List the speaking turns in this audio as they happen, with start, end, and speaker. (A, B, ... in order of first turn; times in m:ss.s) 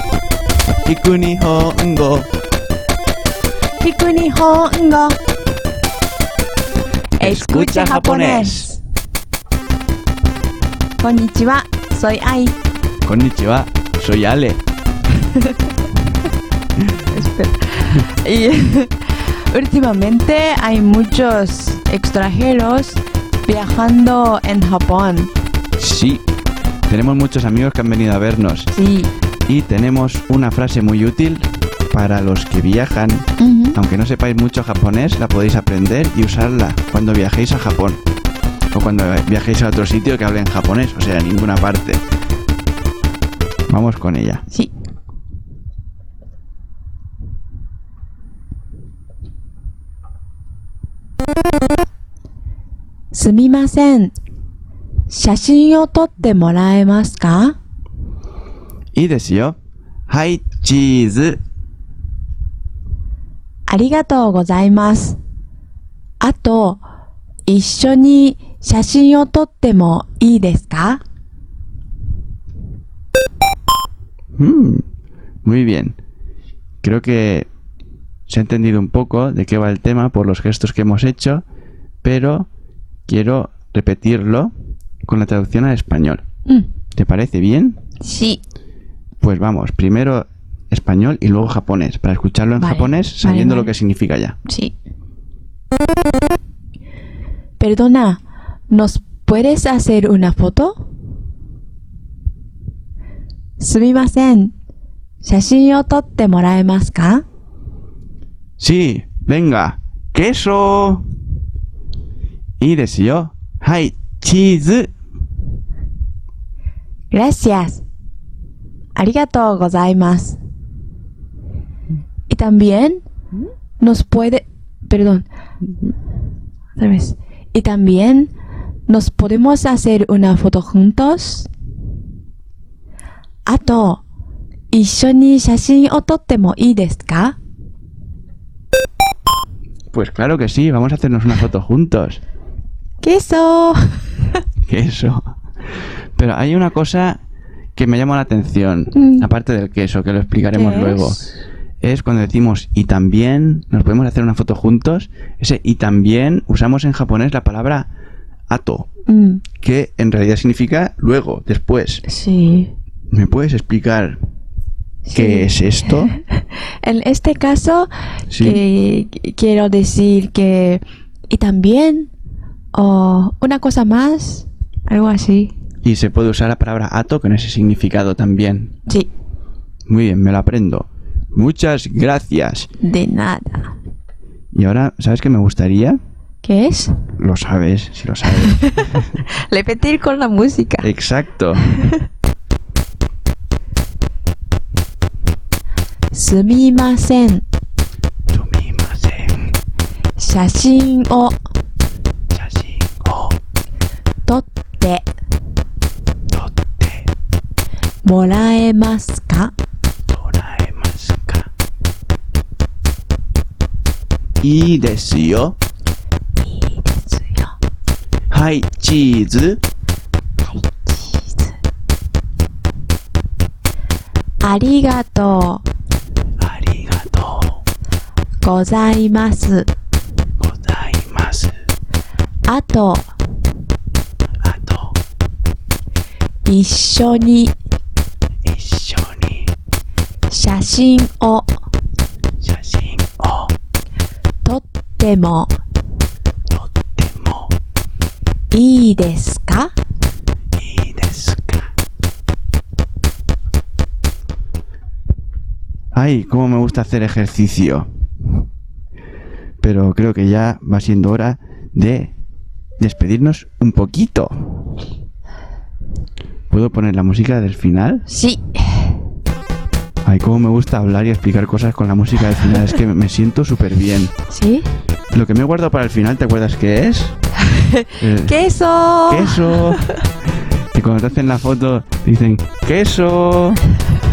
0:00.9-0:02.3 A
0:03.8-0:05.2 B
0:07.2-0:08.7 A
0:07.2-0:08.8 B
0:11.0-0:12.6 B
0:13.0-0:14.6 A
0:15.2-0:15.5 B
0:17.1-0:25.3 B
0:25.8-0:26.2 A
0:26.9-0:28.7 A
0:28.7-0:29.1 B
0:29.5-0:38.0 A
0:33.4-0:33.8 B
0:38.7-0:42.0 A
0:43.7-0:44.4 A
0:53.1-0:54.2 B
0:55.1-0:57.6 B
0:58.9-0:59.6 A
1:00.1-1:01.4 A
1:03.7-1:05.2 B
1:06.2-1:06.8 B
1:07.5-1:11.0 B
1:14.4-1:14.8 A
1:15.4-1:16.0 A
1:16.8-1:17.5 A
1:18.3-1:21.4 A
1:22.0-1:22.5 A
1:23.1-1:24.5 A
1:25.1-1:26.2 A
1:27.0-1:27.8 A
1:28.0-1:28.4 B
1:29.2-1:34.4 A
1:32.6-1:33.7 B
1:34.5-1:34.8 B
1:37.6-1:40.8 B
1:43.6-1:44.6 B
1:45.2-1:47.2 B
1:48.6-1:51.0 A
1:52.6-1:54.9 A
1:57.1-1:57.8 B
1:59.0-2:00.4 B
2:02.3-2:03.0 B
2:03.8-2:05.3 B
2:06.8-2:08.3 B
2:08.9-2:11.5 B
2:13.5-2:14.0 B
2:14.7-2:17.4 B
2:19.9-2:22.2 A
2:23.0-2:24.1 B
2:24.7-2:25.2 A
2:26.2-2:27.2 A
2:27.8-2:31.2 A
2:29.0-2:29.3 B
2:30.5-2:31.2 B
2:31.8-2:37.9 A
2:38.5-2:38.9 A
2:39.1-2:39.4 B
2:39.6-2:42.0 A
2:42.1-2:42.7 B
2:43.1-2:44.2 A
2:45.1-2:52.1 B
2:45.1-2:46.1 A
2:48.3-2:48.6 A
2:52.7-2:55.5 B
2:55.8-2:58.7 A
2:59.9-3:02.7 A
3:02.8-3:03.7 B
3:04.5-3:06.0 A
3:06.4-3:07.0 B
3:07.2-3:09.0 A
3:08.3-3:10.9 B
3:10.8-3:11.6 A
3:16.1-3:17.5 B
3:18.3-3:19.5 A
3:20.2-3:21.4 B
3:22.3-3:23.4 A
3:24.3-3:25.1 B
3:26.3-3:27.1 A
3:28.0-3:29.5 B
3:30.1-3:31.5 A
3:34.4-3:35.6 A
3:36.4-3:37.6 B
3:38.3-3:39.6 A
3:40.4-3:41.4 B
3:44.4-3:45.6 B
3:46.4-3:47.6 A
3:48.4-3:49.7 B
3:50.4-3:51.5 A
3:52.5-3:53.1 B
3:54.4-3:54.9 A
3:56.4-3:57.5 B
3:58.5-3:59.4 A
4:00.3-4:01.5 B
4:02.4-4:03.5 A
4:04.4-4:05.6 B
4:06.8-4:07.5 A
4:08.5-4:09.7 B
4:10.6-4:11.7 A
4:15.9-4:17.9 A
4:19.6-4:22.1 A
4:22.8-4:24.7 A
4:26.5-4:28.0 A
4:28.1-4:28.9 B
4:30.0-4:34.1 A
4:34.3-4:34.7 B
4:35.1-4:37.2 A
4:37.5-4:40.0 B
4:38.0-4:38.4 A
4:39.1-4:39.8 A
4:40.7-4:43.6 A